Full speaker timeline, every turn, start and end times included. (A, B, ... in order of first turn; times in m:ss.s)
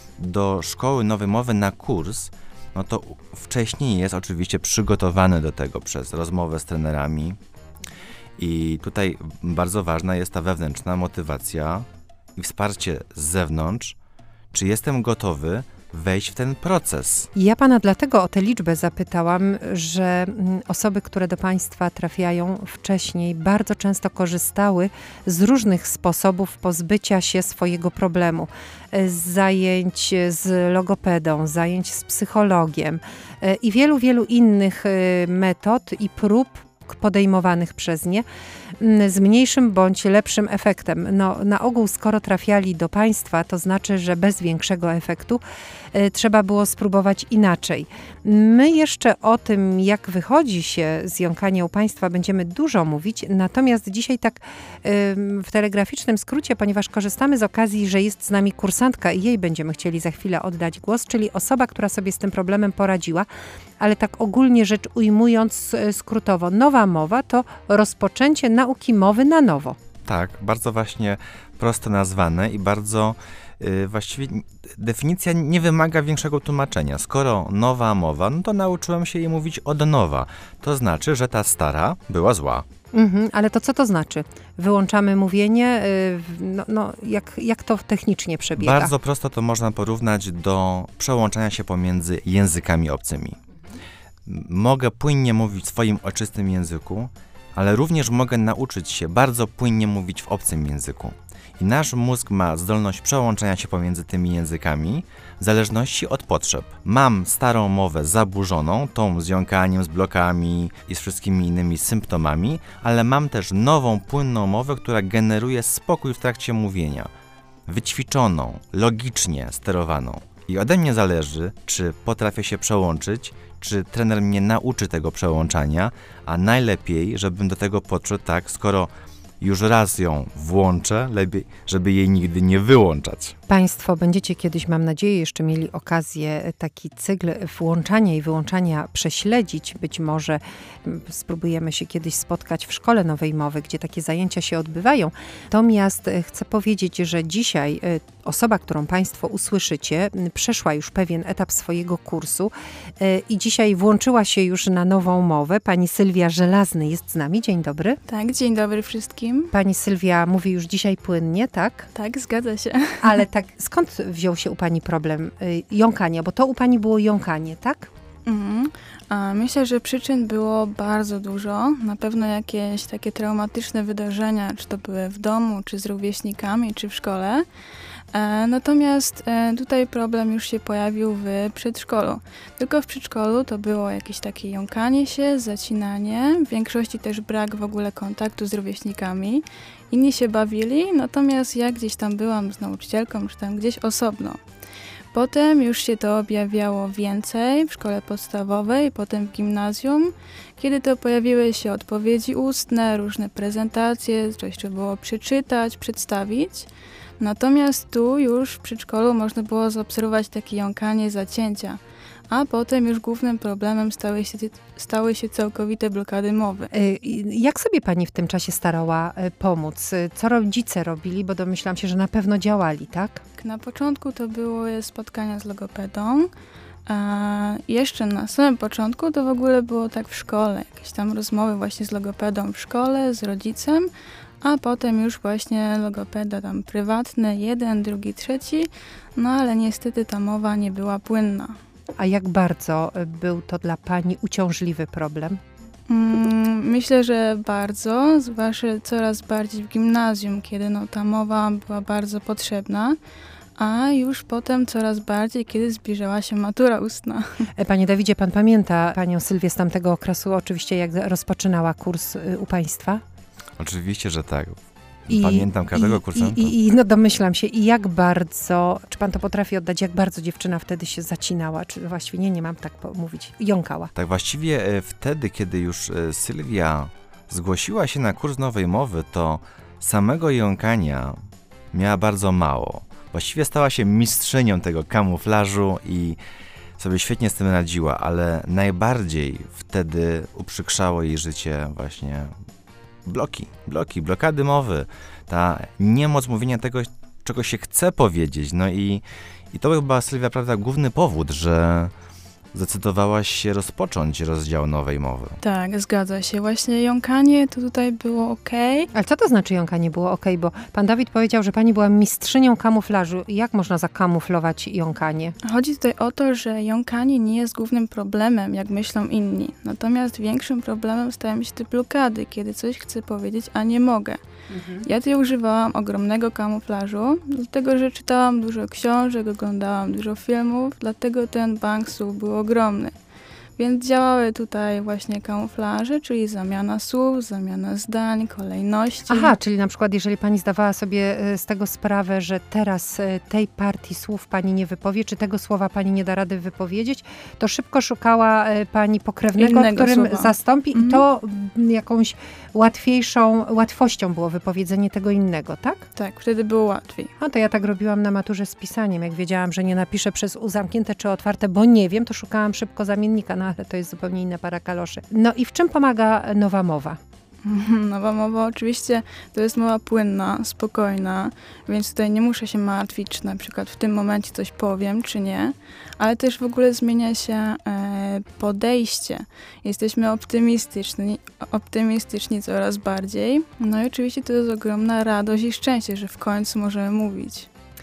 0:00.2-0:07.4 A
0:08.4-0:14.0 A
0:14.5-0:17.3 A
0:17.4-0:38.2 B
0:38.8-0:45.4 B
0:45.9-1:03.3 B
1:03.8-1:09.8 B
1:10.0-1:22.7 A
1:22.9-1:28.9 B
1:28.6-1:33.4 A
1:34.3-1:57.1 A
1:57.7-2:13.4 A
2:13.5-2:38.0 B
2:38.1-2:39.5 C
2:39.5-2:41.9 B
2:42.0-2:43.2 C
2:43.0-2:47.9 B
2:48.3-2:57.4 C
2:58.1-3:14.4 C
3:15.1-3:36.7 C
3:36.7-3:43.2 B
3:43.4-3:46.3 C
3:46.9-3:53.9 C
3:54.4-4:01.6 C
4:02.0-4:05.4 B
4:05.9-4:13.0 C
4:13.6-4:17.4 C
4:17.6-4:23.0 B
4:23.6-4:26.5 A
4:25.1-4:33.9 B
4:34.0-4:41.2 A
4:41.7-4:46.2 A
4:46.8-4:52.3 A
4:53.1-5:01.9 A
5:02.5-5:05.4 A
5:05.4-5:08.9 C
5:08.9-5:15.4 B
5:15.4-5:24.2 C
5:24.5-5:24.9 B
5:24.8-5:33.0 C
5:33.6-5:39.4 C
5:39.1-5:55.9 B
5:49.4-5:51.0 C
5:56.0-5:57.1 C
5:57.2-6:07.0 B
6:07.4-6:27.5 C